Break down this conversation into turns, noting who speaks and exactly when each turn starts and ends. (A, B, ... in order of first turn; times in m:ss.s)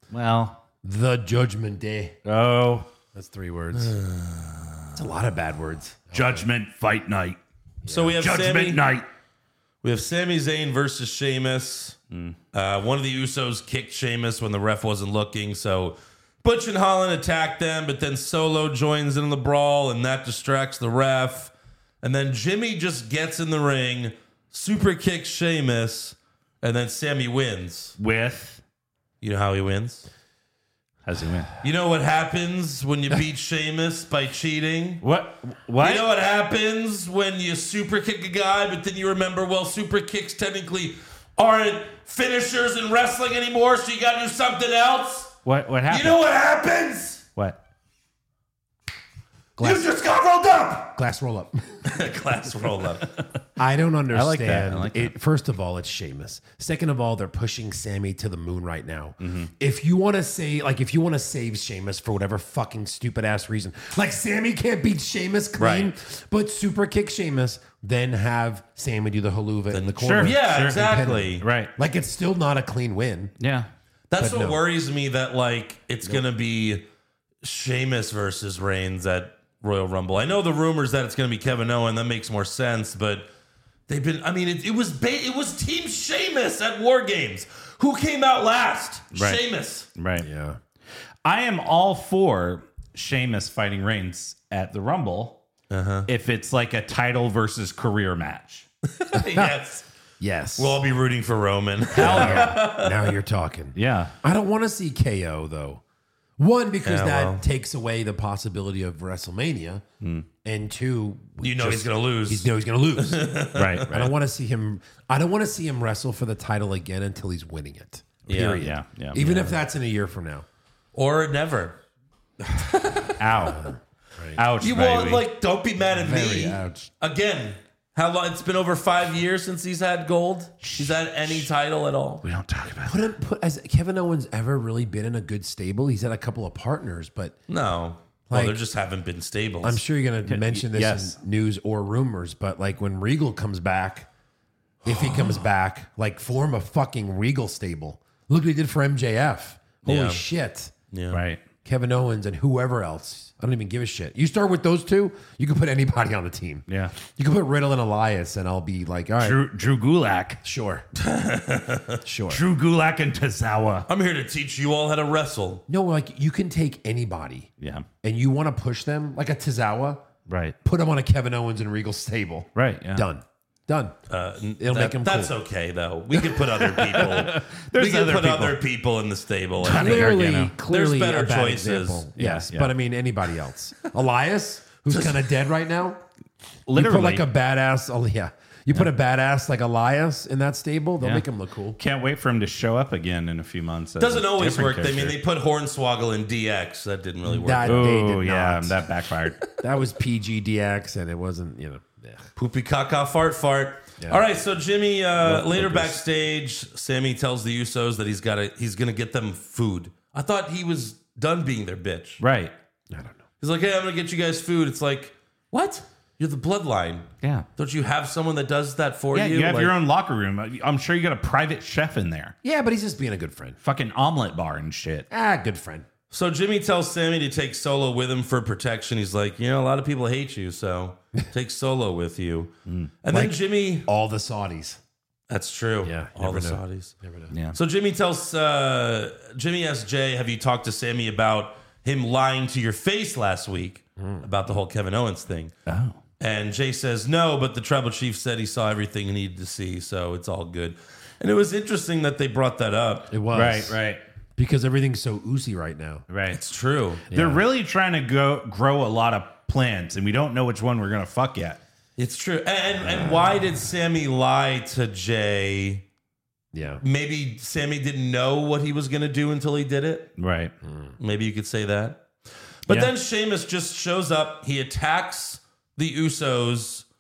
0:00.1-0:00.6 A
0:00.8-0:02.2 B
0:02.2-0:02.9 A
0:03.1-0:04.0 B
0:03.7-0:05.0 C
0:05.0-0:06.5 B
0:06.1-0:07.4 A
0:07.8-0:08.2 B
0:07.9-0:08.8 C
0:08.2-0:09.1 A
0:09.8-0:12.0 C
0:12.1-0:12.4 A
0:12.5-0:28.0 C
0:28.0-0:28.6 A
0:29.2-0:30.1 C
0:31.1-0:31.5 A
0:31.6-0:35.0 C
0:35.0-0:36.1 A
0:35.8-0:45.4 C
0:45.4-0:46.2 A
0:45.9-0:47.2 C
0:49.6-0:49.9 B
0:49.6-0:51.0 C
0:51.0-0:51.6 B
0:51.8-0:53.2 C
0:53.6-1:13.4 B
0:54.1-0:55.2 A
0:59.2-0:59.5 A
1:05.6-1:05.9 C
1:09.7-1:11.5 C
1:10.0-1:10.8 A
1:11.4-1:11.7 A
1:13.4-1:13.7 A
1:14.1-1:16.8 C
1:14.2-1:14.6 B
1:17.4-1:23.3 C
1:23.9-1:29.9 C
1:29.1-1:29.4 A
1:30.0-1:30.3 A
1:30.2-1:30.6 B
1:31.2-1:35.4 A
1:35.7-1:36.1 C
1:36.1-1:38.7 A
1:39.0-1:39.9 C
1:39.2-1:39.5 B
1:40.2-1:40.8 B
1:40.6-1:43.0 C
1:42.0-1:42.6 A
1:42.0-1:45.8 B
1:43.8-1:44.1 A
1:46.4-1:49.8 B
1:46.8-1:47.4 C
1:50.4-2:00.5 B
1:51.4-1:53.9 C
1:53.6-1:54.1 A
1:58.3-1:58.6 C
1:58.3-1:59.5 A
2:01.0-2:01.8 C
2:02.5-2:03.1 C
2:03.2-2:03.6 A
2:03.4-2:04.4 B
2:04.4-2:05.2 A
2:04.6-2:12.2 C
2:05.9-2:06.8 B
2:10.6-2:11.5 A
2:12.2-2:13.0 A
2:12.8-2:17.4 B
2:17.5-2:19.8 C
2:18.3-2:18.6 B
2:19.6-2:24.1 B
2:20.3-2:21.2 A
2:24.8-2:30.7 B
2:24.9-2:25.3 C
2:29.8-2:30.2 C
2:30.9-2:31.2 C
2:31.1-2:31.4 A
2:31.6-2:39.4 B
2:36.7-2:36.9 A
2:39.2-2:40.4 A
2:40.4-2:40.8 B
2:41.0-2:42.0 C
2:42.0-2:42.4 B
2:42.3-2:43.9 A
2:43.9-2:45.6 C
2:45.7-2:47.5 B
2:47.6-2:47.9 A
2:48.0-2:50.0 B
2:50.3-2:50.6 A
2:50.6-2:54.0 B
2:52.6-2:53.1 A
2:54.1-3:02.1 C
2:54.6-2:55.3 B
2:56.8-2:58.6 A
2:59.6-3:00.6 A
2:59.6-3:06.0 B
3:02.2-3:02.7 A
3:04.9-3:05.2 C
3:06.7-3:07.3 A
3:06.7-3:11.8 B
3:11.0-3:11.3 A
3:11.8-3:15.2 A
3:14.0-3:17.9 C
3:17.2-3:18.8 B
3:17.7-3:19.5 A
3:19.5-3:22.3 B
3:22.4-3:32.2 C
3:25.3-3:25.6 B
3:25.4-3:26.0 A
3:32.2-3:32.5 A
3:32.9-3:33.2 B
3:33.4-3:39.7 C
3:39.1-3:42.3 A
3:42.4-3:43.6 B
3:43.6-3:45.1 A
3:45.1-3:45.9 B
3:46.1-3:52.5 C
3:52.7-3:52.9 A
3:53.0-3:53.9 C
3:53.1-3:54.8 B
3:55.3-3:57.0 C
3:55.8-3:57.3 B
3:57.3-3:57.6 A
3:57.5-4:05.5 C
4:04.0-4:04.3 B
4:05.7-4:06.0 A
4:06.2-4:13.1 C
4:13.1-4:13.8 B
4:13.3-4:14.0 A
4:14.4-4:16.1 B
4:16.1-4:16.4 A
4:16.3-4:17.0 C
4:17.1-4:17.5 B
4:17.1-4:21.6 A
4:22.0-4:25.8 C
4:26.5-4:26.8 B
4:26.8-4:30.1 C
4:30.2-4:30.5 A
4:30.6-4:31.0 B
4:31.0-4:32.0 C
4:32.7-4:36.8 C